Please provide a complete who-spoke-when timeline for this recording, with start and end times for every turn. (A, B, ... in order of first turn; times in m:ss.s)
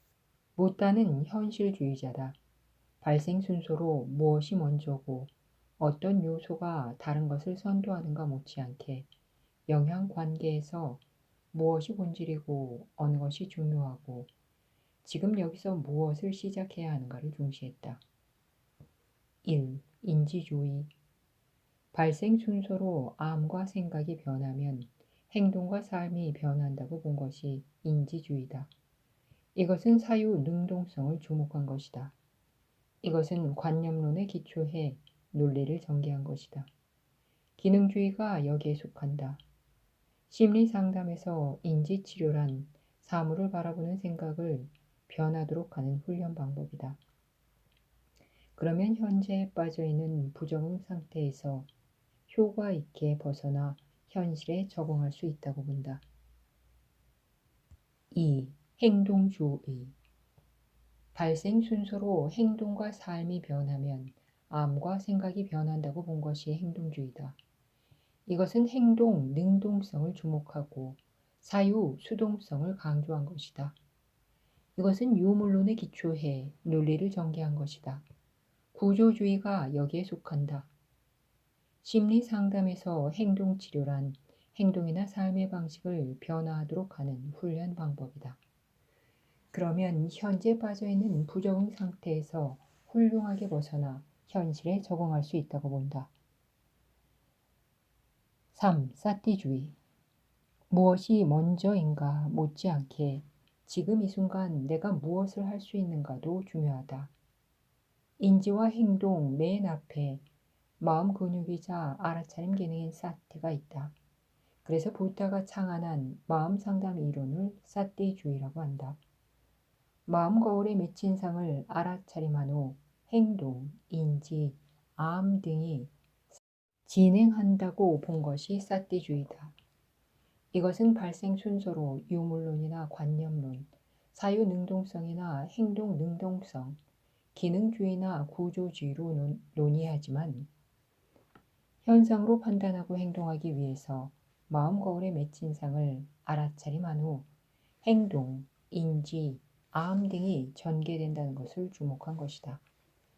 0:00.6-0:02.4 A
0:03.0-0:09.1 A
0:09.7-0:14.3 A
0:15.0-0:18.0 A
0:19.4-0:20.9 A
0:21.9-0:28.7 A
0:29.5-0:32.1 A
0:33.0-0:36.7 A
0:37.6-0:39.4 A
0:40.3-0:47.0 A
0:48.6-0:51.7 A
0:52.3-0:56.0 A
0:58.1-0:59.9 A
1:01.1-1:07.4 A
1:08.3-1:13.8 A
1:14.8-1:18.0 A
1:18.7-1:20.7 A
1:21.8-1:28.4 A
1:29.5-1:36.1 A
1:38.5-1:39.8 A
1:40.7-1:47.1 A
1:48.2-1:50.2 A
1:50.8-1:54.0 A
1:54.6-1:59.0 A
2:00.0-2:05.9 A
2:06.8-2:09.6 A
2:10.5-2:16.8 A
2:17.3-2:20.5 A
2:21.8-2:27.3 A
2:27.8-2:32.6 A